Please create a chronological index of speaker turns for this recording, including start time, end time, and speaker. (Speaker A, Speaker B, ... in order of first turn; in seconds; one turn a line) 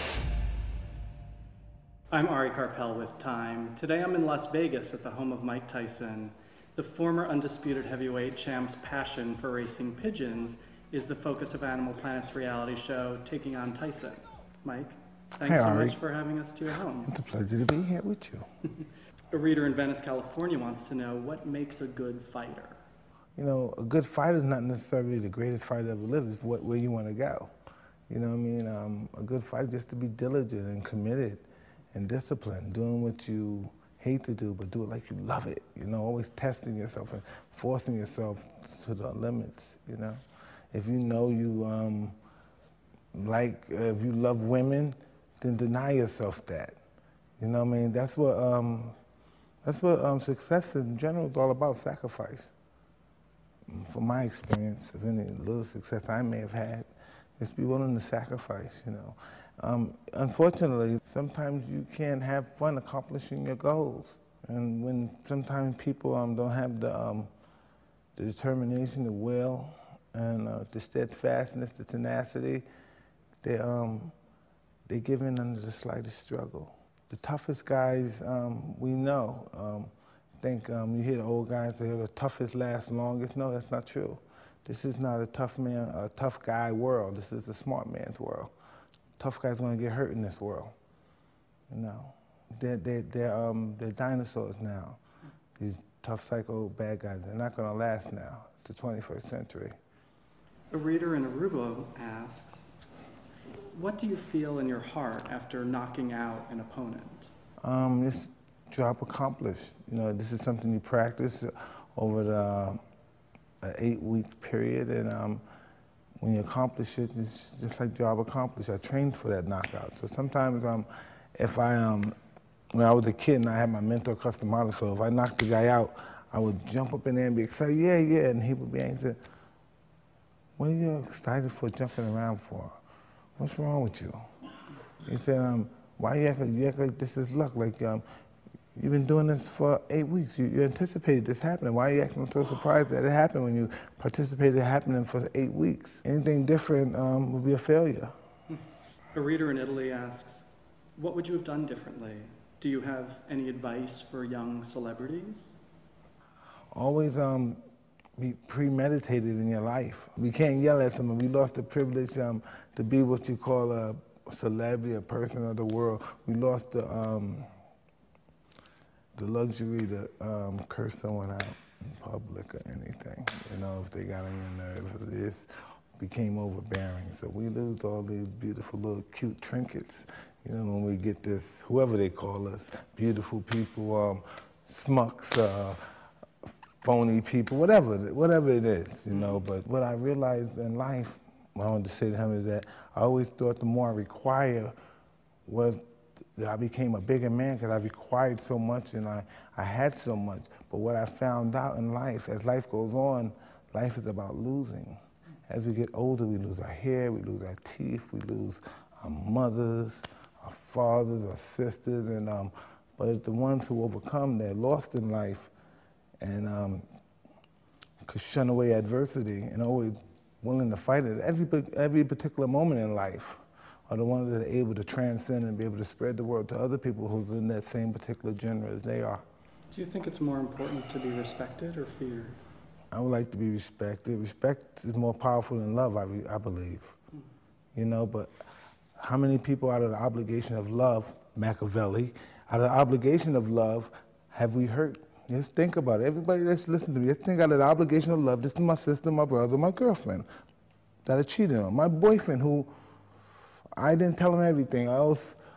Speaker A: 2.1-17.1
Speaker B: 15.4-16.0
Speaker B: 17.0-18.5
Speaker A: 19.3-22.8
Speaker B: 23.4-27.5
Speaker B: 28.1-40.2
Speaker B: 40.7-42.2
Speaker B: 43.1-46.7
Speaker B: 47.4-49.0
Speaker B: 49.6-52.5
Speaker B: 53.7-67.3
Speaker B: 68.2-72.7
Speaker B: 73.4-74.2
Speaker B: 74.9-79.9
Speaker B: 80.4-88.5
Speaker B: 89.2-90.7
Speaker B: 91.7-95.0
Speaker B: 95.6-99.8
Speaker A: 100.7-102.7
Speaker A: 103.7-107.3
Speaker B: 107.6-112.8
Speaker B: 113.6-115.4
Speaker B: 116.2-122.2
Speaker B: 122.7-129.2
Speaker B: 130.6-132.8
Speaker B: 133.4-134.2
Speaker B: 135.0-138.1
Speaker B: 138.8-148.2
Speaker A: 149.1-150.4
Speaker A: 151.0-155.5
Speaker B: 156.7-157.6
Speaker B: 158.2-167.5
Speaker B: 169.2-185.8
Speaker B: 186.8-194.7
Speaker A: 189.1-189.4
Speaker B: 195.5-215.5
Speaker B: 216.2-216.9
Speaker B: 218.0-229.2
Speaker A: 229.7-232.4
Speaker B: 232.9-236.9
Speaker B: 237.8-238.3
Speaker B: 239.0-250.3
Speaker B: 251.1-252.7
Speaker B: 253.8-255.4